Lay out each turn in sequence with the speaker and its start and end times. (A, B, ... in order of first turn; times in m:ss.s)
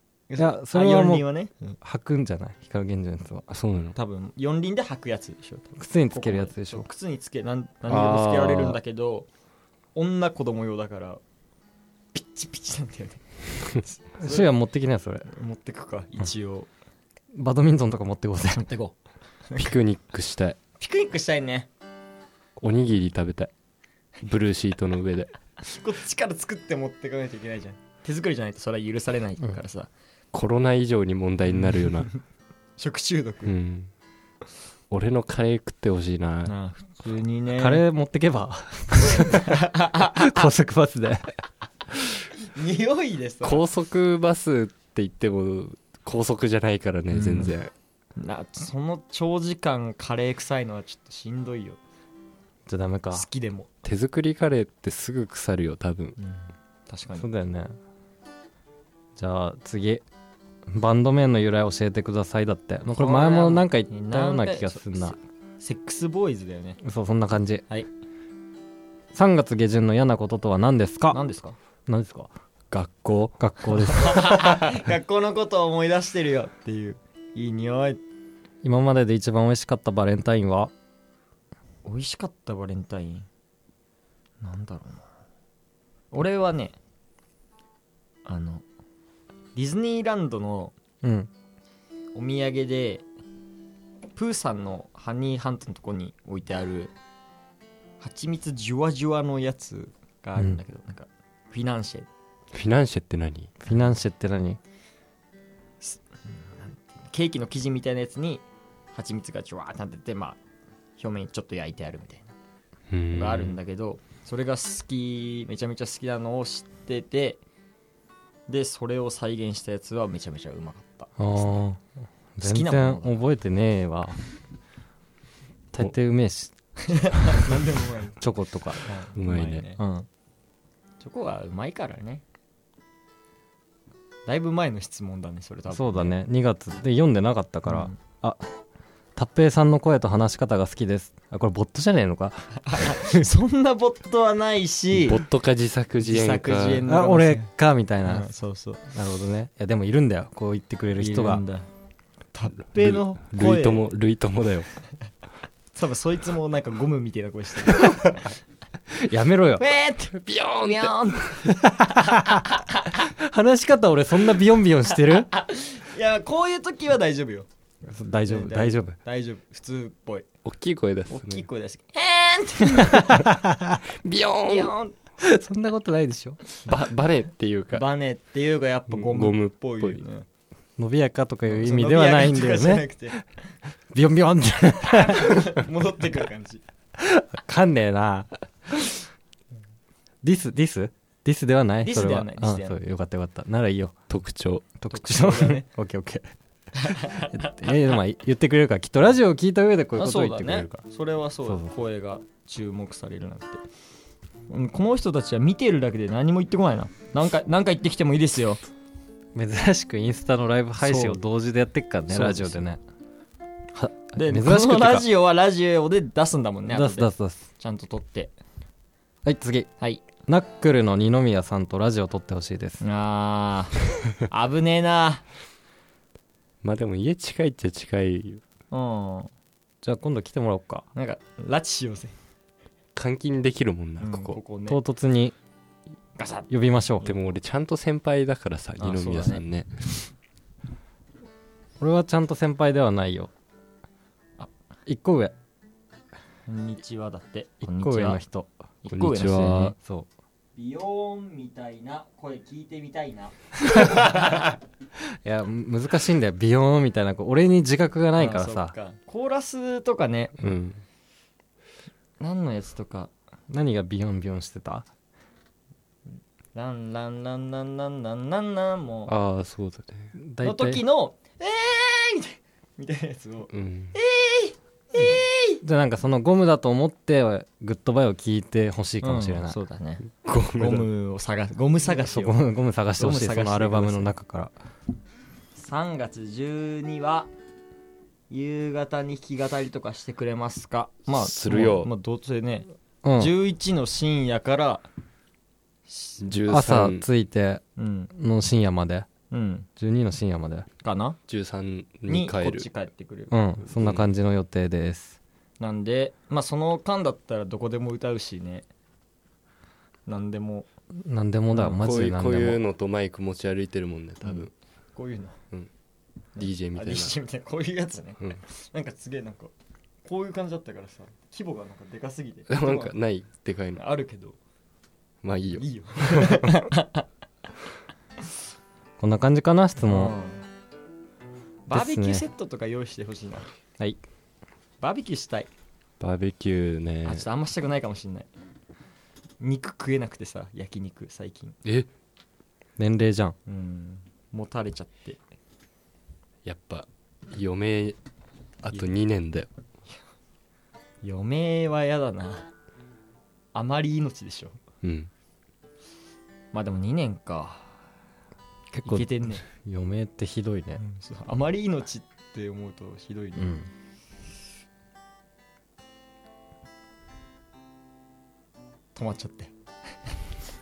0:00.3-0:01.8 A
0:00.4-0:01.2 B
0:01.8-0:03.5 B
0:03.5-0:04.0 C
0:04.0-0:09.3 A
0:05.8-0:06.9 B
0:07.9-0:08.8 C
0:10.0-0:11.2 A
0:12.1-0:14.5 A
0:14.2-0:15.3 B
0:15.3-0:16.7 A
0:17.3-0:18.7 B
0:18.5-0:18.9 A
0:19.6-0:20.6 C
0:20.8-0:21.7 A
0:22.6-0:23.5 C
0:24.2-0:25.3 C
0:25.6-0:29.9 A
0:30.3-0:32.1 C
0:31.5-0:32.2 A
0:32.8-0:33.6 A
0:33.4-0:33.9 C
0:34.9-0:36.5 C
0:36.5-0:37.8 A
0:37.6-0:41.3 B
0:39.1-0:40.5 A
0:42.4-0:43.6 A
0:43.4-0:47.7 C
0:47.1-0:47.6 A
0:48.2-0:51.8 A
0:52.7-0:53.3 B
0:53.1-0:53.7 A
0:53.8-0:56.2 C
0:56.2-0:57.3 A
0:57.2-0:57.8 B
0:59.2-1:00.0 B
1:00.7-1:05.2 B
1:02.9-1:06.8 A
1:06.8-1:07.6 B
1:09.1-1:11.2 B
1:11.1-1:11.6 A
1:11.9-1:12.3 B
1:12.7-1:13.4 C
1:13.4-1:14.3 B
1:13.9-1:18.0 A
1:18.6-1:20.7 B
1:21.8-1:23.3 A
1:24.4-1:25.0 A
1:26.1-1:26.8 A
1:28.2-1:28.6 A
1:29.6-1:30.7 A
1:31.0-1:31.3 B
1:32.2-1:33.0 A
1:34.2-1:36.9 A
1:38.0-1:42.1 A
1:42.5-1:43.5 C
1:43.6-1:44.6 B
1:45.8-1:48.4 A
1:48.9-1:50.4 A
1:51.0-1:52.3 A
1:52.9-1:53.6 C
1:53.1-1:57.4 A
1:58.5-2:01.6 A
2:01.2-2:01.8 B
2:02.4-2:04.2 B
2:02.4-2:03.2 A
2:05.7-2:06.5 B
2:06.9-2:08.2 A
2:08.2-2:08.9 B
2:08.8-2:09.8 A
2:09.2-2:09.6 C
2:09.8-2:10.1 B
2:11.0-2:12.2 A
2:14.3-2:16.2 A
2:15.7-2:18.5 B
2:17.7-2:17.9 A
2:19.2-2:23.3 B
2:22.7-2:25.2 A
2:24.9-2:26.9 C
2:26.0-2:27.5 A
2:26.9-2:28.3 B
2:28.0-2:28.8 A
2:28.9-2:31.4 B
2:31.0-2:31.7 A
2:32.3-2:33.8 A
2:32.8-2:34.7 C
2:35.7-2:38.3 A
2:39.0-2:39.6 B
2:39.6-2:42.9 A
2:40.1-2:41.4 C
2:41.5-2:42.5 B
2:43.0-2:45.3 B
2:45.1-2:47.5 A
2:47.9-2:49.0 B
2:48.3-2:50.3 A
2:50.4-2:51.4 C
2:51.1-2:53.3 A
2:52.8-2:53.8 B
2:53.9-2:54.7 C
2:54.4-2:55.0 A
2:55.2-2:56.4 B
2:56.7-2:57.8 C
2:57.7-3:00.3 A
2:58.9-3:00.0 C
3:00.8-3:02.9 B
3:01.5-3:03.2 A
3:03.9-3:05.4 B
3:04.8-3:06.6 A
3:07.0-3:08.9 B
3:10.2-3:14.0 B
3:11.8-3:12.8 A
3:14.1-3:14.7 C
3:14.8-3:16.3 B
3:14.9-3:15.6 A
3:16.8-3:18.0 A
3:17.3-3:20.8 B
3:20.0-3:23.6 A
3:24.5-3:28.6 A
3:29.4-3:32.8 B
3:30.8-3:31.2 A
3:32.1-3:32.6 A
3:33.8-3:35.0 B
3:34.2-3:38.3 A
3:36.7-3:37.4 B
3:39.2-3:39.7 B
3:40.3-3:42.8 B
3:42.8-3:45.2 A
3:46.6-3:48.4 C
3:48.7-3:49.3 A
3:49.8-3:50.8 B
3:51.0-3:52.1 A
3:53.0-3:54.4 C
3:54.0-3:54.8 A
3:54.7-3:55.3 B
3:56.2-3:56.5 A
3:56.5-3:57.1 B
3:57.0-4:00.0 C
3:58.8-3:59.4 A
4:01.8-4:03.3 B
4:04.9-4:05.3 B
4:06.5-4:08.2 A
4:07.6-4:08.5 B
4:08.8-4:09.8 A
4:08.9-4:09.8 C
4:09.5-4:10.1 B
4:10.6-4:14.1 A
4:13.7-4:14.4 B
4:15.2-4:18.7 B
4:18.2-4:20.4 A
4:20.4-4:20.8 C
4:22.2-4:23.1 A
4:23.5-4:24.9 B
4:26.6-4:29.2 A
4:29.1-4:30.1 C
4:30.2-4:30.8 B
4:30.4-4:35.6 A
4:33.5-4:34.0 C
4:35.6-4:39.6 B
4:39.0-4:42.4 A
4:40.2-4:40.9 C
4:42.0-4:44.5 B
4:43.0-4:44.1 A
4:45.6-4:47.3 A
4:48.3-4:54.9 A
4:51.1-4:51.9 C
4:53.0-4:53.3 B
4:55.9-4:56.3 A
4:56.2-4:57.0 C
4:56.5-4:57.6 B
4:57.8-4:58.1 A
4:58.1-4:59.1 B
4:59.3-4:59.7 A
4:59.8-5:00.7 B
5:00.8-5:01.2 A
5:01.3-5:02.7 C
5:02.1-5:03.3 A
5:03.3-5:05.2 B
5:03.8-5:04.1 C
5:05.6-5:08.7 A
5:10.1-5:10.7 A
5:11.0-5:12.6 B
5:11.6-5:14.5 C
5:14.2-5:15.4 A
5:16.4-5:17.2 C
5:16.4-5:19.5 A
5:20.0-5:22.9 A
5:22.5-5:23.8 C
5:23.8-5:24.4 A
5:25.2-5:26.4 C
5:25.6-5:27.0 A
5:29.0-5:30.1 B
5:29.8-5:30.4 A
5:31.7-5:33.5 A
5:31.7-5:32.2 B
5:34.8-5:35.5 A
5:36.0-5:37.3 C
5:37.1-5:38.3 A
5:39.4-5:41.6 A
5:41.6-5:41.9 C
5:42.8-5:43.4 B
5:43.5-5:45.2 A
5:46.4-5:48.0 C
5:48.6-5:49.5 C
5:51.0-5:52.5 A
5:53.5-5:54.6 A
5:54.8-5:55.1 C
5:56.5-5:57.7 A
5:58.7-6:00.8 B
5:58.9-5:59.4 A
6:00.8-6:03.6 A
6:03.4-6:03.7 B
6:09.0-6:09.5 A